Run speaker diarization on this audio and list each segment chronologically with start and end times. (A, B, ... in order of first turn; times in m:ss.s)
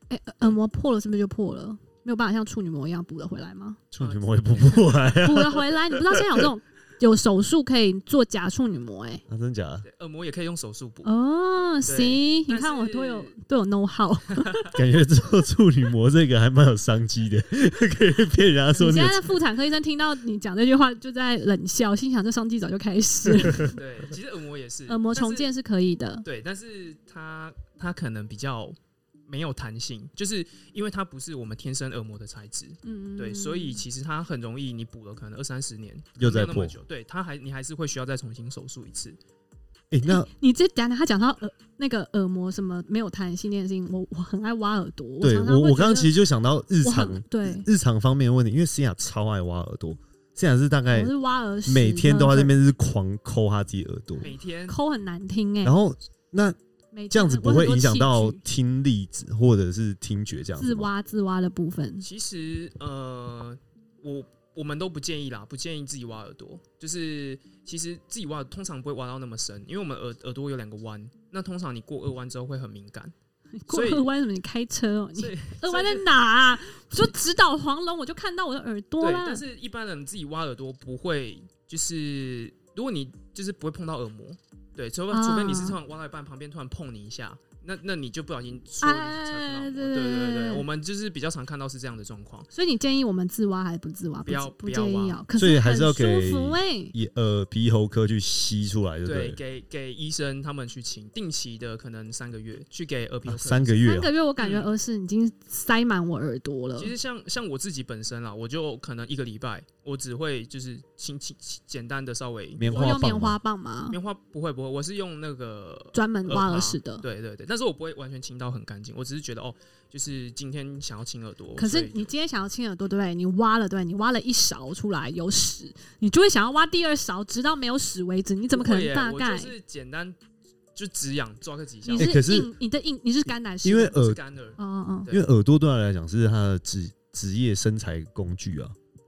0:00.1-0:03.8 A
0:03.9-0:06.4 B
0:04.0-0:05.2 C
0:05.2-0:09.2 A
0:09.3-0:09.8 B
0:09.8-0:11.1 C
0:11.0-0:14.7 A
0:11.9-0:13.3 C
0:14.3-0:14.7 C
0:14.8-0:19.2 B
0:18.8-0:23.8 A
0:23.5-0:25.5 C
0:24.9-0:26.2 A
0:26.2-0:39.2 C
0:32.8-0:33.8 A
0:36.2-0:36.8 B
0:39.9-0:40.3 B
0:40.0-0:46.1 A
0:45.2-0:51.1 B
0:46.8-0:47.7 A
0:50.9-0:52.5 A
0:51.7-0:54.3 B
0:54.2-0:54.8 C
0:54.7-0:55.8 A
0:55.6-0:56.6 B
0:56.9-0:58.4 A
0:57.1-1:00.9 B
1:00.6-1:02.0 A
1:02.0-1:13.1 C
1:13.6-1:19.4 A
1:13.7-1:14.1 C
1:15.2-1:16.1 C
1:19.0-1:32.5 C
1:25.1-1:25.8 A
1:28.8-1:30.7 A
1:32.5-1:36.9 A
1:34.2-1:35.2 C
1:35.4-1:39.4 B
1:39.0-1:43.8 C
1:43.2-1:44.1 B
1:43.8-1:46.9 A
1:44.4-1:44.7 C
1:46.8-1:53.0 C
1:52.6-1:53.4 B
1:52.7-1:54.0 A
1:53.9-2:02.1 C
1:55.9-1:57.0 A
2:01.6-2:09.5 A
2:08.5-2:10.2 C
2:10.7-2:12.2 C
2:11.8-2:14.0 A
2:12.0-2:12.5 B
2:13.6-2:14.2 B
2:13.9-2:15.2 C
2:14.6-2:15.1 A
2:15.1-2:18.8 B